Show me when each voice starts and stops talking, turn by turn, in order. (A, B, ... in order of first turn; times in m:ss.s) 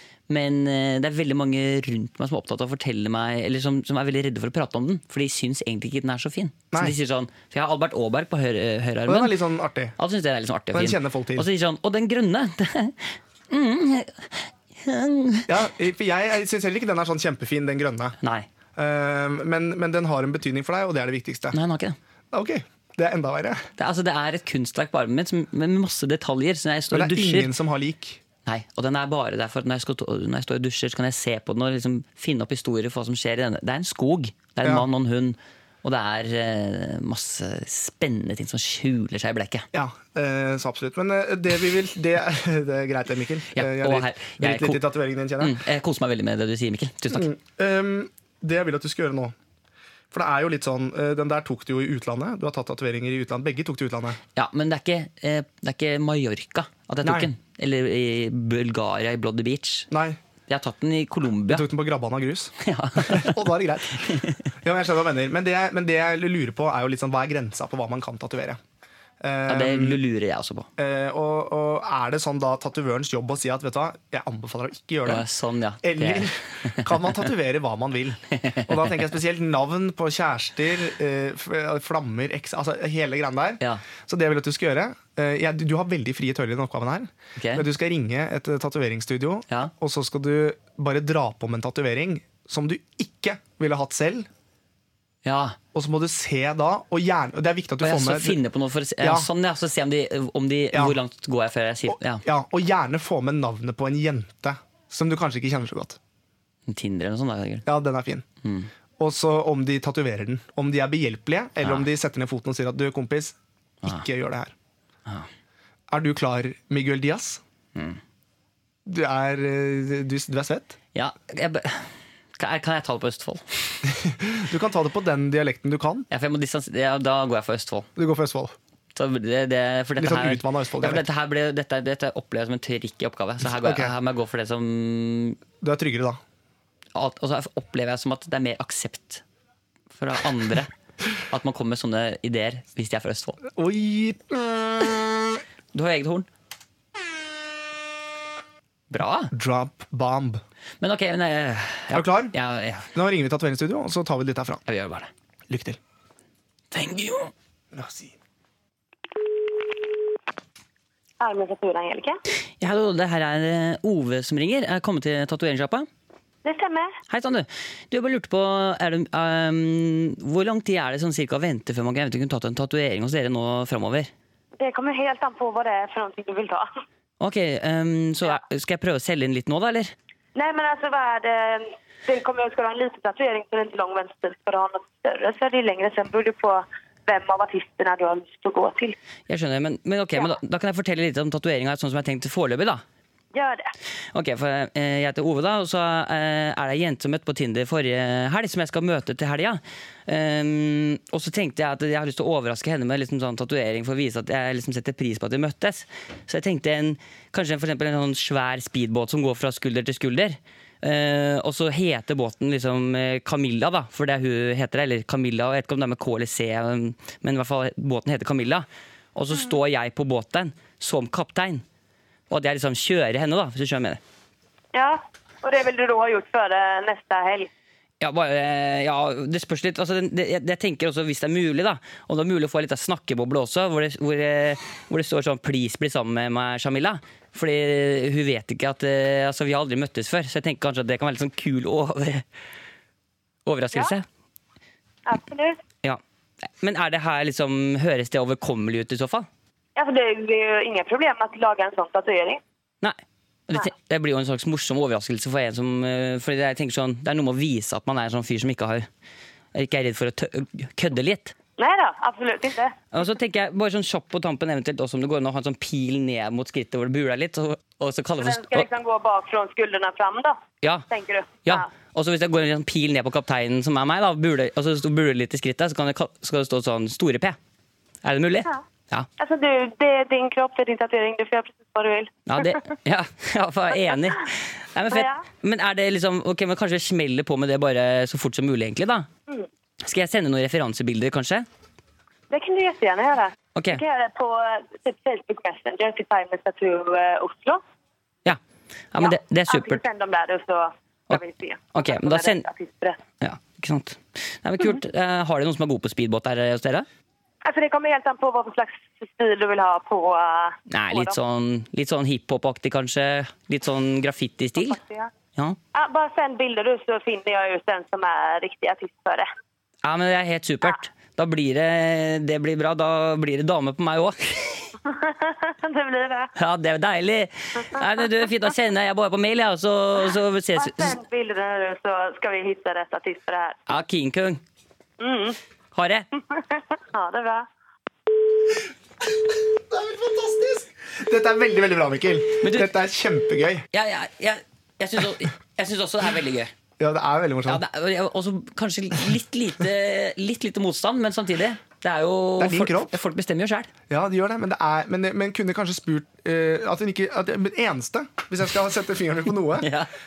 0:00.3-0:09.4 A
0:06.7-0:07.0 B
0:09.1-0:09.9 B
0:10.0-0:15.5 A
0:10.7-0:11.5 B
0:15.5-0:18.2 B
0:18.2-0:18.5 A
0:18.8-0:21.6 B
0:21.5-0:22.0 A
0:22.3-0:23.7 B
0:23.8-0:27.5 A
0:26.9-0:28.2 B
0:28.4-0:39.7 A
0:39.7-0:45.6 B
0:43.5-0:44.8 A
0:45.4-0:47.3 A
0:47.1-0:49.3 B
0:50.1-0:54.2 B
0:54.3-0:59.9 A
0:57.0-0:57.3 B
0:59.9-1:00.2 B
1:00.5-1:01.6 A
1:01.5-1:08.6 B
1:02.6-1:03.4 A
1:04.0-1:04.5 A
1:09.2-1:10.0 B
1:09.5-1:10.7 A
1:10.8-1:15.2 B
1:15.0-1:16.9 A
1:15.8-1:34.3 B
1:18.3-1:18.9 A
1:27.4-1:27.6 A
1:35.2-1:35.6 A
1:35.7-1:38.4 B
1:37.8-1:42.2 A
1:39.0-1:39.3 B
1:40.7-1:41.0 B
1:41.9-1:46.0 B
1:46.7-1:47.7 A
1:47.6-1:48.2 B
1:48.4-1:48.7 A
1:49.0-1:54.5 B
1:51.6-1:51.8 A
1:55.9-1:57.4 B
1:57.8-1:58.0 A
1:58.8-2:00.8 B
2:00.9-2:03.8 A
2:03.8-2:06.1 B
2:06.1-2:07.9 A
2:08.0-2:08.5 B
2:08.9-2:15.4 A
2:10.0-2:11.0 B
2:13.4-2:13.9 B
2:15.6-2:16.2 B
2:16.9-2:19.2 A
2:19.9-2:20.7 A
2:21.3-2:23.4 A
2:23.5-2:25.4 B
2:25.7-2:26.3 A
2:28.9-2:29.3 A
2:29.3-2:30.4 B
2:30.8-2:32.9 A
2:31.9-2:32.3 B
2:32.9-2:34.6 B
2:34.7-2:35.1 A
2:35.5-2:35.8 B
2:36.7-2:37.3 A
2:37.7-2:38.2 B
2:41.2-2:42.2 C
2:42.6-2:45.9 A
2:46.4-2:47.0 C
2:47.1-2:54.1 A
2:54.6-2:56.7 C
2:57.2-2:59.9 A
3:00.3-3:09.0 C
3:09.3-3:12.8 A
3:13.3-3:13.7 C
3:14.1-3:41.6 A
3:42.3-3:44.0 A
3:44.7-3:47.5 C
3:48.0-4:02.2 A
4:03.4-4:04.1 A
4:05.0-4:05.6 C
4:06.6-4:09.3 A
4:09.8-4:12.4 C
4:12.8-4:18.9 A
4:19.5-4:21.3 A
4:21.6-4:22.8 C
4:22.9-4:28.7 A
4:28.2-4:30.4 C
4:30.6-4:30.9 A
4:30.9-4:31.6 C
4:31.4-4:37.4 A
4:38.0-4:39.1 A
4:39.2-4:42.5 C
4:42.3-4:49.1 A
4:44.9-4:45.2 C
4:49.8-4:51.4 A
4:52.3-4:57.6 C
4:53.5-4:53.8 A
4:58.9-4:59.8 A
4:59.0-5:03.0 C
5:01.7-5:02.4 A
5:03.2-5:06.8 A
5:07.4-5:11.2 C
5:10.7-5:14.8 A
5:14.6-5:15.1 C
5:15.7-5:19.3 C
5:19.8-5:24.7 A
5:24.8-5:26.3 C
5:26.4-5:31.0 A
5:30.6-5:33.6 C
5:33.7-5:34.4 A
5:35.0-5:35.4 C
5:35.7-5:36.1 A
5:36.3-5:37.5 C
5:39.0-5:43.6 B
5:42.4-5:42.7 A
5:43.7-5:46.5 A
5:46.8-5:47.6 B
5:47.4-5:53.7 A
5:52.4-5:53.0 B
5:53.9-5:59.7 B
5:59.6-5:59.9 A